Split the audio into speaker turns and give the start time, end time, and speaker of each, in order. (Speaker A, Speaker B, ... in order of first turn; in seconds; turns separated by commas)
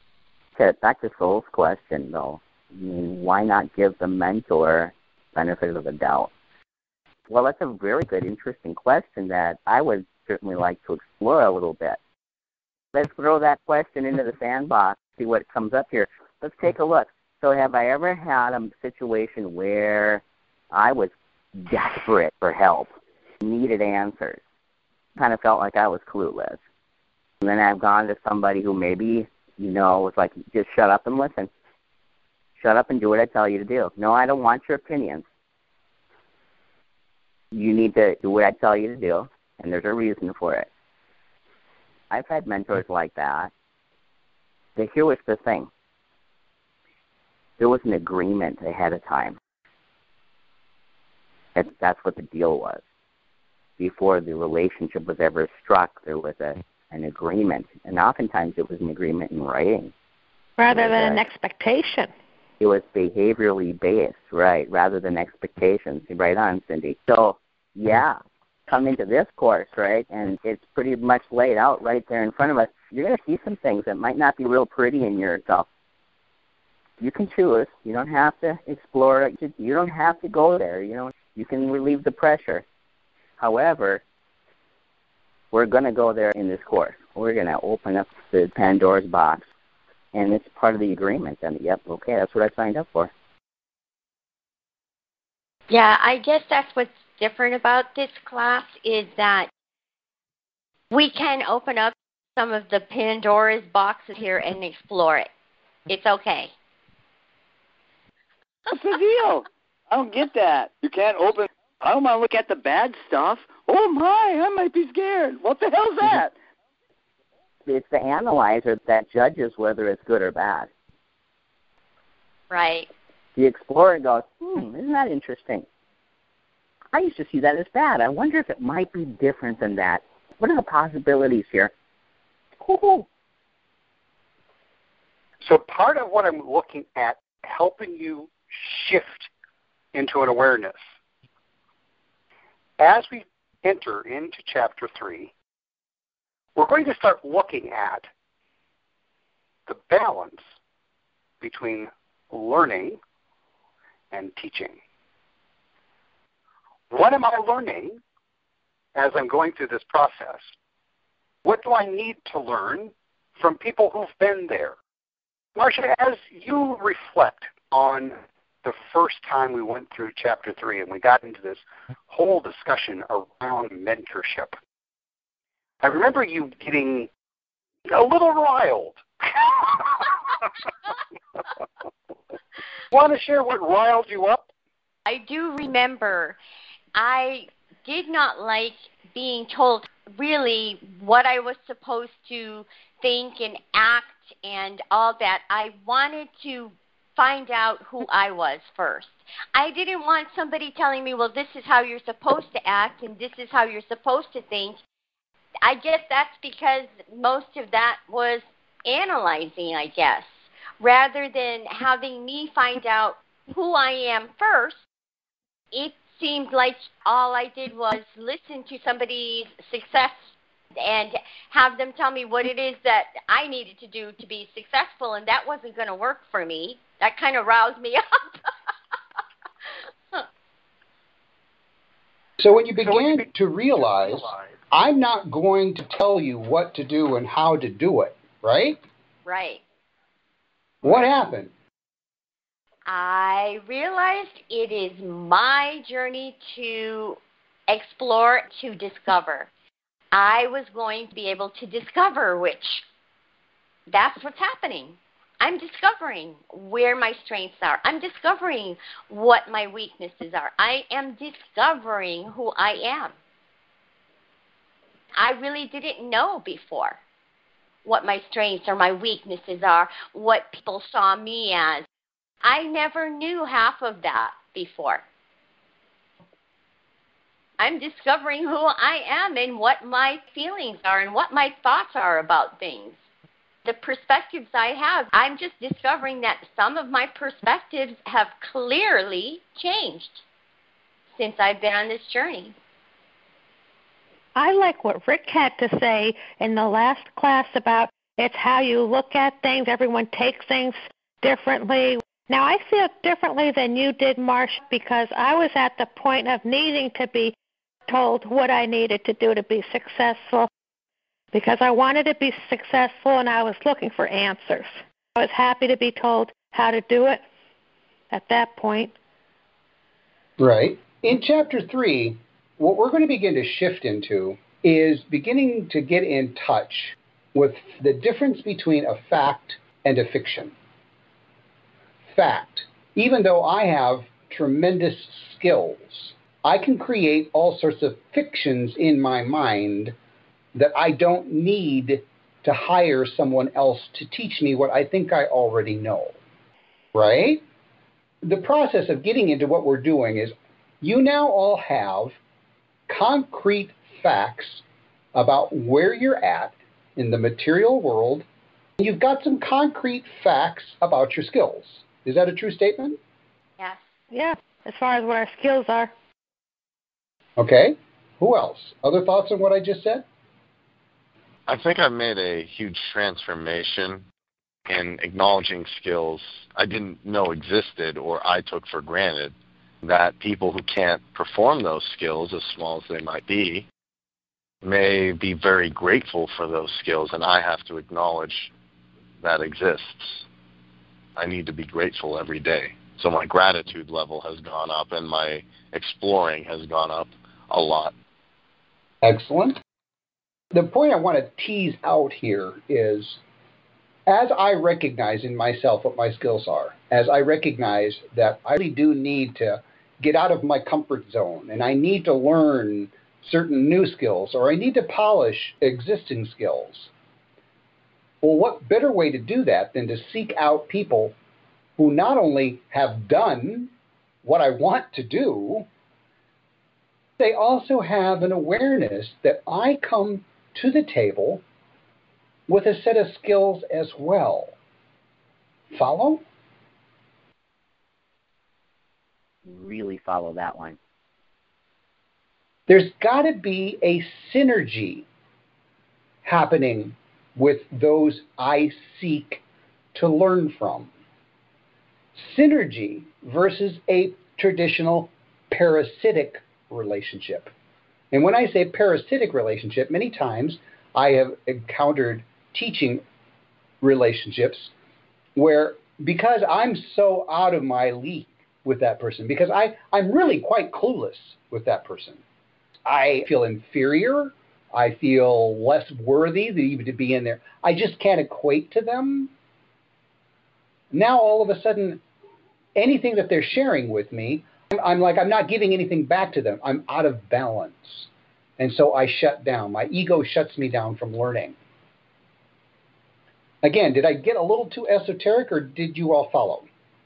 Speaker A: 0.6-6.3, Speaker A: 7.3-12.0, Speaker A: 12.9-24.4, Speaker A: 25.2-26.6, Speaker A: 27.4-31.5, Speaker A: 32.6-35.3, Speaker A: 37.5-40.7, Speaker A: 42.1-43.5, Speaker A: 44.8-45.7, Speaker A: 47.6-49.4, Speaker A: 51.5-52.8, Speaker A: 53.8-59.9, Speaker B: 60.6-62.1, Speaker A: 60.7-61.2, Speaker A: 62.6-75.7, Speaker A: 77.0-82.6, Speaker A: 83.4-84.0, Speaker A: 85.5-89.5, Speaker A: 90.1-93.1, Speaker C: 95.7-99.5, Speaker C: 100.9-105.3, Speaker C: 105.9-106.5, Speaker D: 108.7-116.3, Speaker A: 117.7-120.7, Speaker C: 122.5-122.9, Speaker A: 123.4-125.7, Speaker A: 126.9-131.7, Speaker A: 132.6-133.1, Speaker E: 135.4-139.3, Speaker E: 139.9-140.8, Speaker E: 142.8-145.3, Speaker E: 146.6-148.1, Speaker E: 149.7-150.4, Speaker E: 151.4-153.0, Speaker E: 154.1-154.8, Speaker E: 156.9-158.0, Speaker E: 158.9-160.5, Speaker E: 161.4-164.8, Speaker E: 165.6-174.6, Speaker E: 175.8-177.1, Speaker E: 177.9-180.2, Speaker E: 182.9-184.5, Speaker C: 185.1-186.4, Speaker C: 186.9-204.8, Speaker C: 205.6-214.8, Speaker C: 215.7-220.2, Speaker C: 220.8-228.0, Speaker F: 232.4-238.8, Speaker C: 239.2-239.6, Speaker F: 240.8-241.5, Speaker C: 242.9-249.5, Speaker C: 250.1-252.8, Speaker C: 253.9-263.1, Speaker C: 265.1-267.0, Speaker C: 267.9-271.9, Speaker C: 272.4-275.0, Speaker C: 277.6-283.0, Speaker C: 283.6-290.2, Speaker C: 291.1-292.6, Speaker B: 294.4-307.4, Speaker B: 307.9-310.5, Speaker B: 311.3-317.2, Speaker B: 318.1-318.9, Speaker F: 320.4-330.5, Speaker F: 332.1-339.9, Speaker F: 340.6-346.2, Speaker F: 346.9-347.4, Speaker F: 348.2-352.2, Speaker F: 352.9-358.2, Speaker F: 358.8-363.0, Speaker B: 364.1-365.9, Speaker F: 367.4-370.1, Speaker G: 371.5-374.1, Speaker G: 374.7-383.7, Speaker G: 384.6-388.5, Speaker G: 389.2-390.2, Speaker G: 391.1-397.9, Speaker F: 399.0-399.6, Speaker F: 400.5-403.2, Speaker F: 404.1-416.9, Speaker F: 418.2-421.1, Speaker F: 421.8-423.7, Speaker F: 424.2-425.7, Speaker F: 427.2-431.4, Speaker F: 432.5-434.6, Speaker F: 435.7-436.2, Speaker A: 439.5-440.8, Speaker F: 442.7-445.1, Speaker F: 446.2-449.4, Speaker F: 449.9-450.9, Speaker F: 452.1-457.5, Speaker F: 458.1-463.0, Speaker F: 463.8-464.7, Speaker F: 465.4-472.2, Speaker F: 472.9-479.3, Speaker F: 480.9-482.0, Speaker F: 482.8-491.6, Speaker F: 493.6-496.7